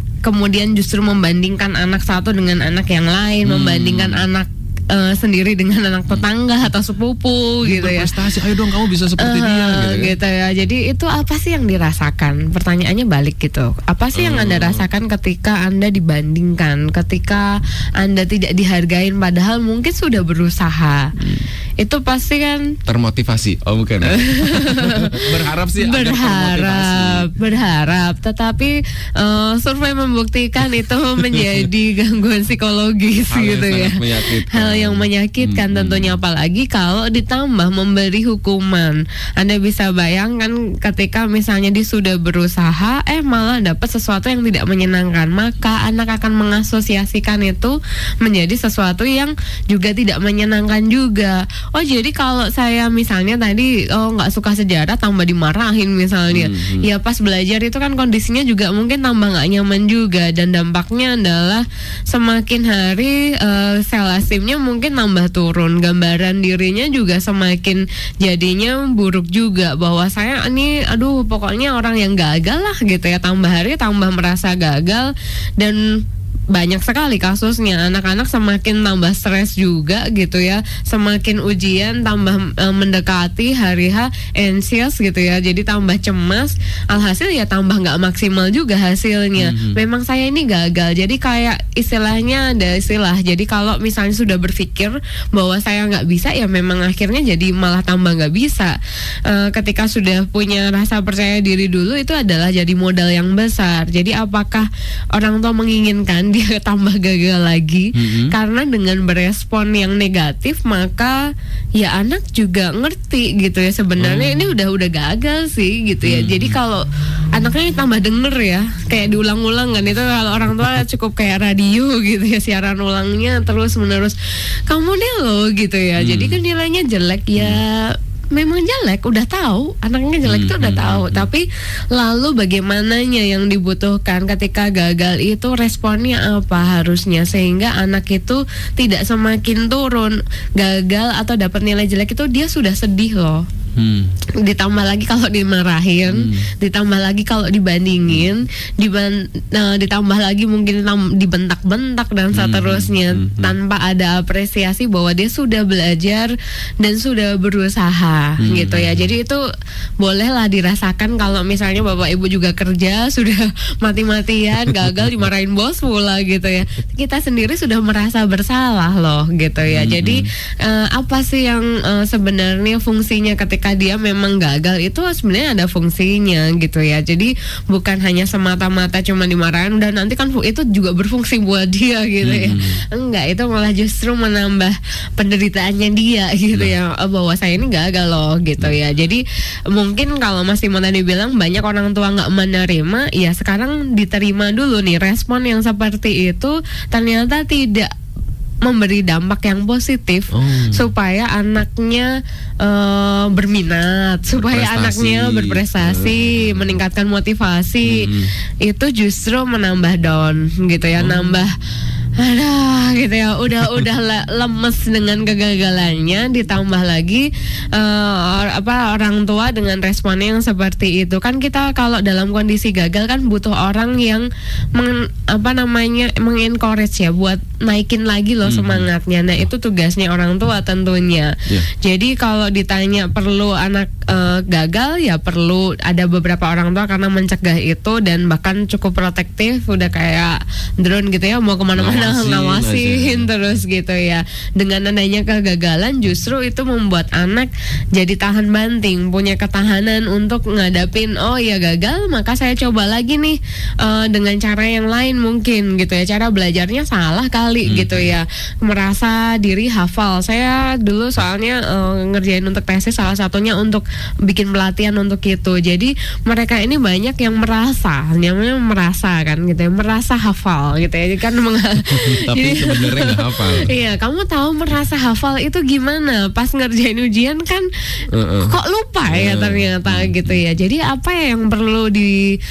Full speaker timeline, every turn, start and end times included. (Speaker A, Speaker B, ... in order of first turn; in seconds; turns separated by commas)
Speaker A: 0.2-8.1, Speaker B: 3.4-4.2, Speaker B: 7.6-10.1, Speaker A: 9.2-21.1, Speaker B: 14.1-14.8, Speaker B: 21.2-21.5, Speaker A: 21.8-22.8, Speaker B: 22.9-27.3, Speaker A: 24.0-111.2, Speaker B: 31.3-31.6, Speaker B: 33.3-36.1, Speaker B: 56.3-56.9, Speaker B: 89.4-89.8, Speaker B: 107.9-108.3, Speaker A: 111.8-143.4, Speaker B: 114.0-114.5, Speaker B: 116.0-116.6, Speaker B: 126.0-126.4, Speaker B: 130.2-131.3, Speaker B: 143.8-144.1, Speaker A: 144.4-159.4, Speaker B: 146.1-146.5, Speaker B: 152.3-153.5, Speaker B: 158.4-159.1, Speaker A: 160.0-197.9, Speaker B: 169.7-170.2, Speaker B: 182.2-182.8, Speaker A: 198.6-208.1, Speaker B: 200.3-200.9, Speaker B: 204.3-206.8, Speaker B: 207.8-208.3, Speaker A: 208.6-211.6, Speaker B: 211.0-211.4, Speaker A: 212.2-277.6, Speaker B: 228.4-228.9, Speaker B: 241.8-243.3, Speaker B: 257.6-258.1, Speaker B: 271.9-273.7, Speaker B: 278.1-278.5, Speaker A: 278.4-282.2, Speaker B: 279.1-280.4